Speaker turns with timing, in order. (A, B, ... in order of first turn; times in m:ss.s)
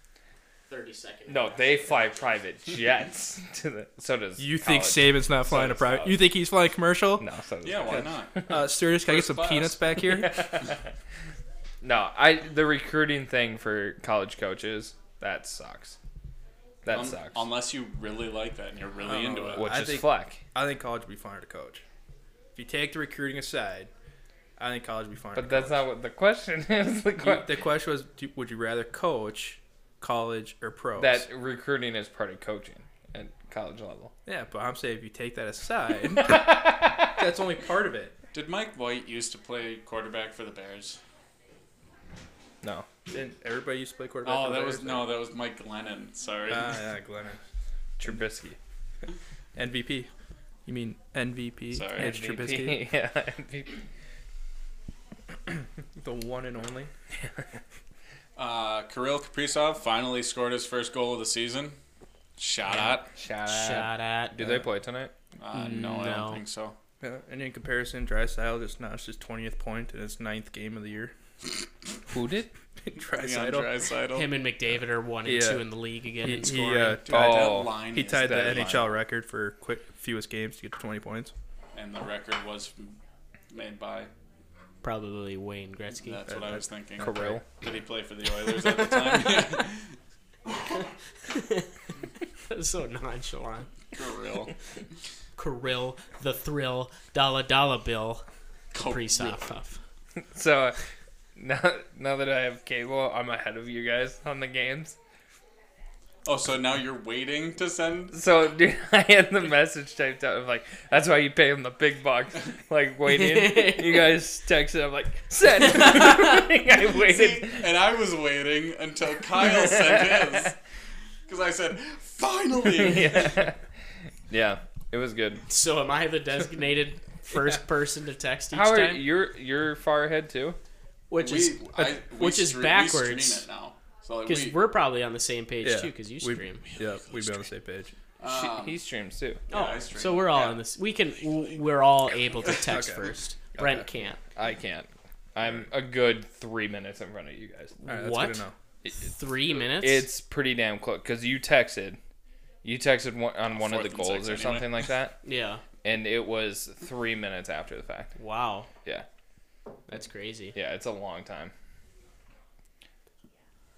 0:00.7-0:02.2 A
0:01.3-0:06.2 B
0:04.4-0:07.2 C
0:07.2-0:08.6 B
0:07.6-0:09.8 D
0:08.5-0:10.5 C
0:10.0-0:10.9 B
0:11.8-0:16.0 B
0:16.8-0:17.4 B
0:16.9-0:19.7 D
0:19.0-0:21.8 C
0:19.5-0:20.4 B
0:22.6-0:23.9 C
0:24.6-0:25.8 C
0:25.3-0:27.5 B
0:27.2-0:31.2 C
0:31.0-0:34.1 B
0:34.2-0:38.1 C
0:36.2-0:37.1 B
0:38.3-0:41.0 D
0:42.6-0:42.9 B
0:43.1-0:45.1 C
0:44.2-0:46.8 D
0:46.5-0:47.4 C
0:48.0-0:48.6 B
0:49.6-0:50.1 C
0:50.6-0:52.8 C
0:51.7-0:52.1 D
0:52.0-0:53.8 B
0:56.0-0:56.9 C
0:58.4-1:01.8 D
1:02.4-1:03.1 D
1:02.9-1:05.1 B
1:03.4-1:04.4 A
1:05.4-1:06.8 D
1:05.5-1:06.4 A
1:07.0-1:11.1 C
1:12.1-1:12.5 B
1:12.8-1:13.7 C
1:13.2-1:14.3 D
1:14.1-1:17.0 A
1:15.2-1:15.6 C
1:16.2-1:21.3 C
1:17.0-1:18.8 D
1:17.1-1:18.9 B
1:21.7-1:23.0 D
1:23.5-1:24.1 D
1:24.8-1:26.2 A
1:26.0-1:29.9 D
1:26.3-1:27.4 C
1:27.0-1:27.4 B
1:31.3-1:31.7 A
1:32.5-1:33.7 A
1:33.9-1:34.5 D
1:35.4-1:38.2 A
1:38.7-1:39.5 D
1:38.8-1:39.8 A
1:40.2-1:40.8 B
1:41.4-1:45.0 B
1:46.2-1:48.1 D
1:48.1-1:57.7 B
1:53.1-1:54.1 A
1:55.7-1:56.3 A
1:56.7-2:00.6 D
1:59.7-2:00.0 B
2:01.3-2:03.4 D
2:02.7-2:03.6 B
2:04.3-2:05.4 B
2:05.5-2:09.0 A
2:08.5-2:10.6 B
2:11.1-2:13.4 A
2:11.2-2:14.6 D
2:14.2-2:16.6 A
2:15.6-2:17.9 C
2:16.6-2:17.4 D
2:18.2-2:18.8 D
2:18.2-2:19.4 B
2:19.5-2:20.6 D
2:19.5-2:24.2 A
2:22.5-2:23.8 C
2:24.3-2:27.7 B
2:27.8-2:30.1 A
2:27.8-2:28.5 C
2:29.6-2:32.0 B
2:32.6-2:35.2 B
2:33.5-2:34.9 D
2:35.2-2:35.6 A
2:35.8-2:38.1 B
2:38.2-2:38.7 A
2:39.9-2:40.6 A
2:40.5-2:41.5 B